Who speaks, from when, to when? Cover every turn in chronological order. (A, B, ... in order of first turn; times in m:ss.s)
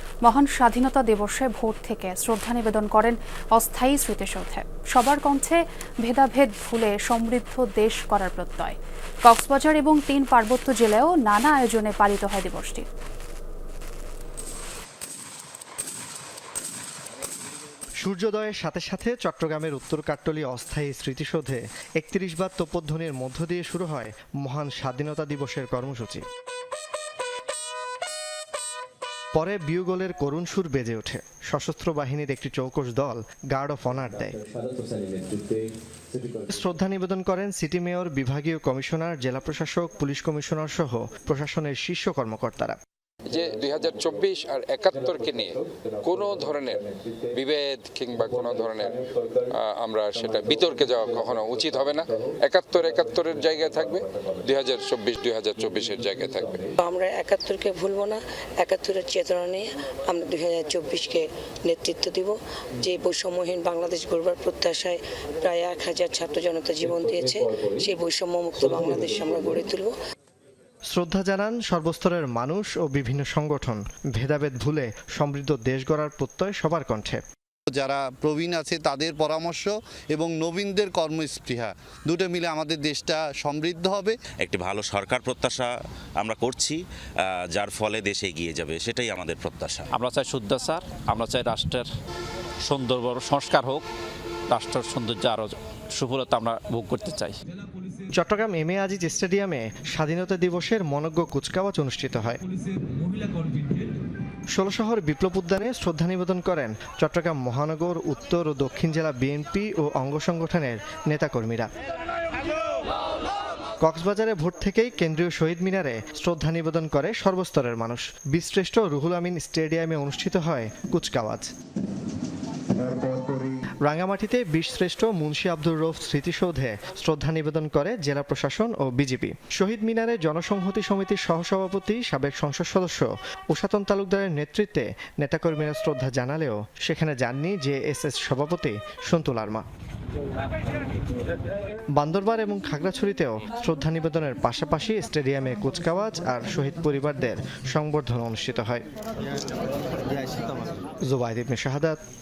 0:00.2-0:12.8 A
0:18.0-0:26.2 B
0:29.3-0:34.4 B
0:36.5-0:42.8 B
0:43.3-0:56.7 C
0:56.8-1:10.0 D
1:10.9-1:17.2 B
1:17.7-1:24.2 E
1:24.4-1:26.8 F
1:27.5-1:29.8 F
1:29.9-1:31.9 G
1:32.6-1:33.8 G
1:34.5-1:37.3 G
1:38.1-1:42.4 B
1:44.5-1:51.7 B
1:53.8-2:01.5 B
2:02.8-2:19.6 B
2:22.0-2:28.8 B
2:31.1-2:32.0 B